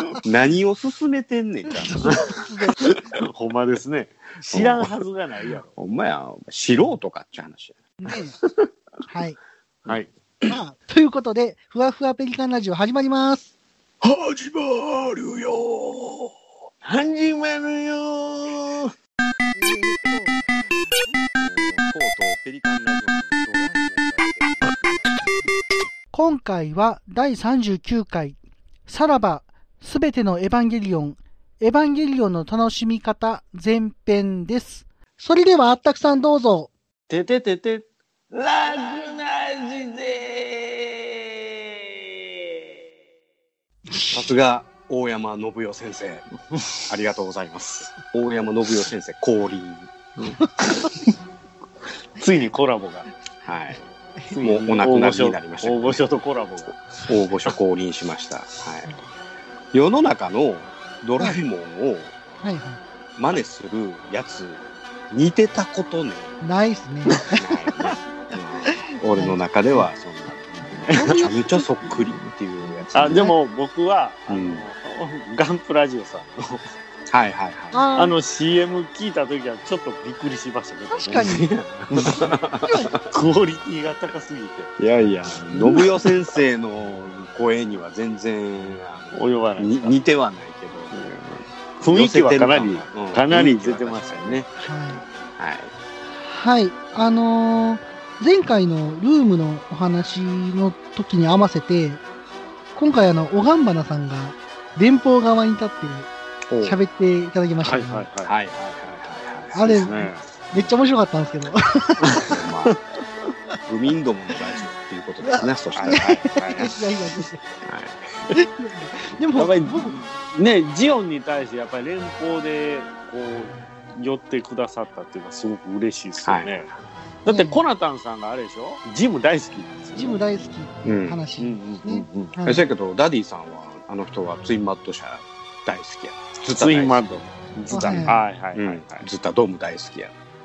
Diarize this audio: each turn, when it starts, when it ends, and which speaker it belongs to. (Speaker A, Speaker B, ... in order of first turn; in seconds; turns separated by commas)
Speaker A: 0.2-2.3, Speaker B: 1.8-2.8, Speaker C: 2.8-5.7, Speaker A: 4.5-4.9, Speaker A: 5.7-7.8, Speaker B: 8.0-8.3, Speaker C: 8.4-8.7, Speaker B: 9.1-9.4, Speaker A: 9.8-10.5, Speaker B: 10.5-13.5, Speaker A: 14.0-16.3, Speaker C: 16.8-18.9, Speaker B: 19.5-20.4, Speaker A: 21.4-25.1, Speaker B: 26.1-28.4, Speaker B: 28.9-36.7, Speaker C: 37.1-42.3, Speaker B: 43.9-44.2, Speaker A: 44.1-46.3, Speaker A: 46.9-50.3, Speaker C: 50.2-50.9, Speaker C: 52.2-53.1, Speaker A: 53.4-53.8, Speaker C: 54.3-56.8, Speaker A: 54.4-56.0, Speaker A: 57.1-59.0, Speaker A: 59.7-62.1, Speaker B: 62.4-62.8, Speaker A: 63.2-66.3, Speaker B: 66.4-67.4, Speaker A: 67.3-73.3, Speaker B: 68.7-69.8, Speaker B: 70.9-71.7, Speaker C: 72.9-76.6, Speaker B: 73.0-73.3, Speaker A: 74.3-74.6, Speaker A: 77.1-77.8, Speaker B: 77.7-78.1, Speaker C: 78.0-81.2, Speaker B: 80.9-81.5, Speaker A: 81.1-83.0, Speaker C: 81.9-82.3, Speaker B: 82.6-82.9, Speaker C: 83.1-84.7, Speaker A: 84.8-91.1, Speaker C: 89.1-90.0, Speaker C: 90.9-91.2, Speaker C: 91.8-94.5, Speaker A: 91.8-95.7, Speaker B: 94.6-95.0, Speaker B: 96.2-102.0, Speaker B: 102.8-106.1, Speaker A: 106.5-106.8, Speaker B: 106.6-108.0, Speaker C: 107.6-108.3, Speaker A: 108.2-110.0, Speaker B: 109.5-112.2, Speaker C: 109.7-110.2, Speaker C: 112.1-112.8, Speaker A: 112.3-112.8, Speaker A: 113.7-116.1, Speaker B: 115.2-117.4, Speaker C: 115.7-116.7, Speaker A: 117.6-118.2, Speaker B: 118.3-120.0, Speaker C: 119.3-126.7, Speaker A: 126.2-126.7, Speaker C: 127.2-130.2, Speaker B: 127.3-127.6, Speaker B: 129.9-132.6, Speaker A: 130.8-131.2, Speaker C: 131.4-132.3, Speaker A: 132.4-137.0, Speaker C: 136.6-139.1, Speaker B: 137.7-138.2, Speaker A: 137.7-140.1